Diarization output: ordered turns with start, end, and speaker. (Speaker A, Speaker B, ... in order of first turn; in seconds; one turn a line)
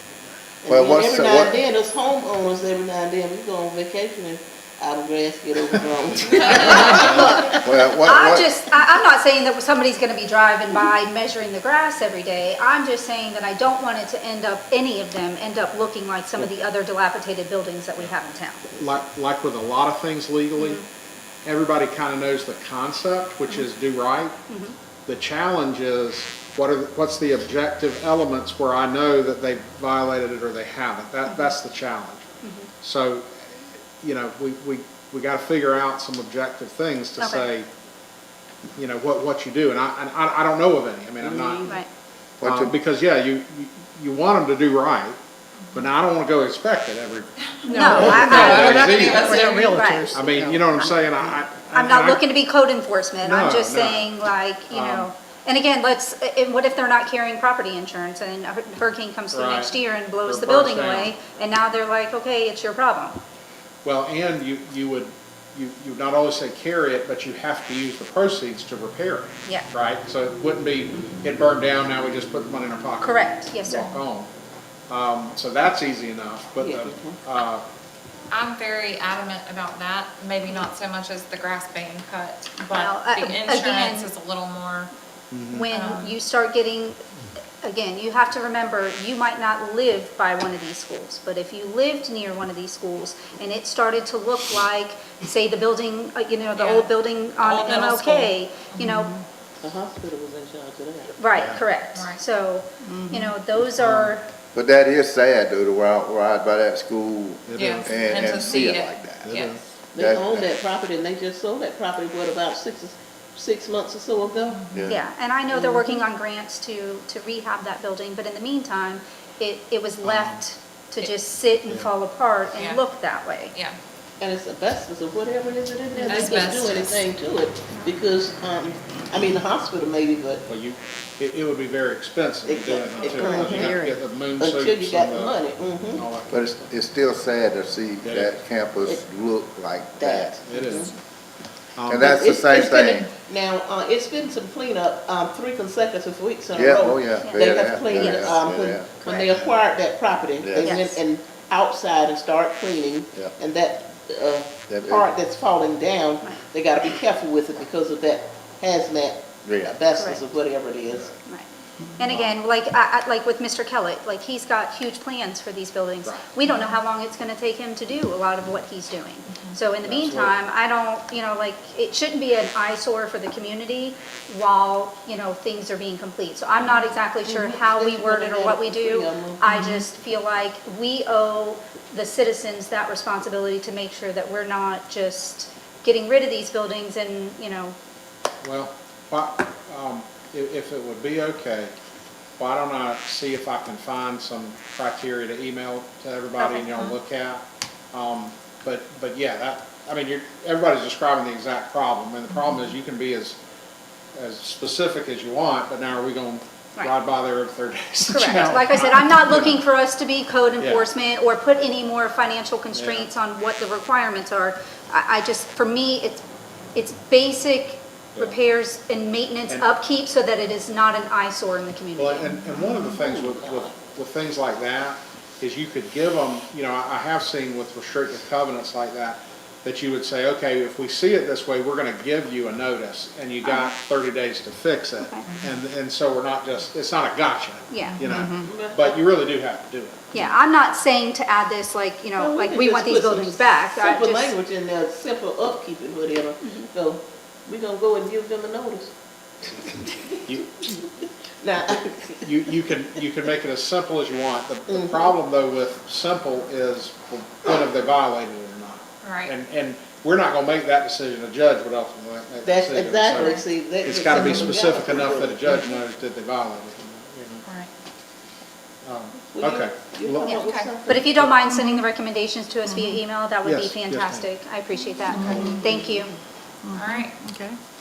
Speaker A: 0.6-7.5
Speaker B: 0.7-1.6
Speaker C: 6.5-6.9
Speaker D: 6.5-18.7
Speaker B: 7.5-8.5
Speaker E: 18.8-20.8
Speaker D: 20.6-20.9
Speaker E: 21.4-24.4
Speaker D: 24.5-24.8
Speaker E: 25.1-32.3
Speaker D: 31.3-31.5
Speaker D: 32.4-32.7
Speaker E: 32.8-37.7
Speaker D: 37.2-37.5
Speaker E: 38.8-41.7
Speaker A: 41.2-41.8
Speaker B: 42.4-42.7
Speaker E: 42.4-45.2
Speaker E: 45.7-49.5
Speaker C: 47.6-49.9
Speaker D: 47.6-50.1
Speaker F: 48.3-50.9
Speaker E: 50.1-52.3
Speaker D: 51.7-63.2
Speaker E: 53.2-54.1
Speaker E: 54.7-55.1
Speaker E: 59.3-61.1
Speaker E: 63.8-74.3
Speaker D: 73.0-73.9
Speaker E: 74.9-77.6
Speaker A: 76.6-77.2
Speaker C: 78.3-84.9
Speaker D: 82.7-84.1
Speaker E: 85.3-85.7
Speaker D: 85.5-87.0
Speaker C: 85.7-86.2
Speaker D: 87.6-99.2
Speaker C: 96.6-96.9
Speaker C: 97.4-99.1
Speaker A: 99.6-101.2
Speaker D: 101.2-104.2
Speaker E: 101.3-101.6
Speaker C: 101.9-102.2
Speaker F: 102.8-103.3
Speaker E: 103.8-104.1
Speaker B: 104.5-109.4
Speaker E: 107.5-108.4
Speaker C: 107.5-109.6
Speaker E: 109.2-109.6
Speaker A: 109.9-114.6
Speaker B: 110.0-110.5
Speaker B: 114.7-115.0
Speaker D: 114.9-123.5
Speaker A: 115.5-116.0
Speaker E: 120.0-120.4
Speaker C: 122.6-122.8
Speaker A: 124.2-130.4
Speaker D: 126.0-126.4
Speaker C: 126.0-127.1
Speaker E: 130.5-136.6
Speaker A: 132.4-133.8
Speaker F: 133.0-134.0
Speaker A: 134.3-136.1
Speaker B: 136.3-140.4
Speaker E: 138.0-138.4
Speaker A: 140.0-140.9
Speaker E: 140.4-140.9
Speaker E: 141.8-142.3
Speaker B: 141.9-143.1
Speaker A: 142.1-161.1
Speaker B: 146.5-149.6
Speaker D: 147.2-148.4
Speaker B: 150.4-150.7
Speaker D: 150.6-151.0
Speaker B: 154.7-155.1
Speaker B: 159.4-159.8
Speaker D: 159.9-160.2
Speaker D: 161.2-187.8
Speaker E: 162.1-162.4
Speaker C: 169.3-169.6
Speaker E: 169.8-170.3
Speaker E: 176.6-176.9
Speaker A: 177.2-179.5
Speaker C: 179.5-179.8
Speaker E: 188.4-191.7
Speaker E: 192.4-203.4
Speaker D: 196.4-196.9
Speaker E: 204.2-209.6
Speaker D: 208.1-216.2
Speaker E: 210.6-210.9
Speaker E: 212.7-213.1
Speaker D: 216.8-222.3
Speaker E: 221.9-240.3
Speaker A: 222.8-223.8
Speaker D: 233.4-233.7
Speaker D: 235.0-235.3
Speaker D: 237.7-238.3
Speaker A: 238.3-239.0
Speaker D: 240.1-244.3
Speaker A: 242.2-248.9
Speaker D: 246.4-246.7
Speaker A: 249.6-250.8
Speaker E: 250.3-250.6
Speaker A: 251.4-252.6
Speaker E: 252.2-267.4
Speaker A: 254.7-255.2
Speaker C: 259.0-259.3
Speaker A: 262.4-265.8
Speaker C: 263.2-263.4
Speaker C: 267.4-267.7
Speaker E: 268.8-270.4
Speaker A: 269.3-271.3
Speaker D: 270.2-276.1
Speaker C: 270.3-270.7
Speaker F: 271.5-271.8
Speaker F: 272.7-273.0
Speaker E: 273.4-274.3
Speaker F: 275.1-275.6
Speaker E: 275.1-275.6
Speaker A: 275.3-276.1
Speaker F: 276.6-277.6
Speaker C: 276.7-277.1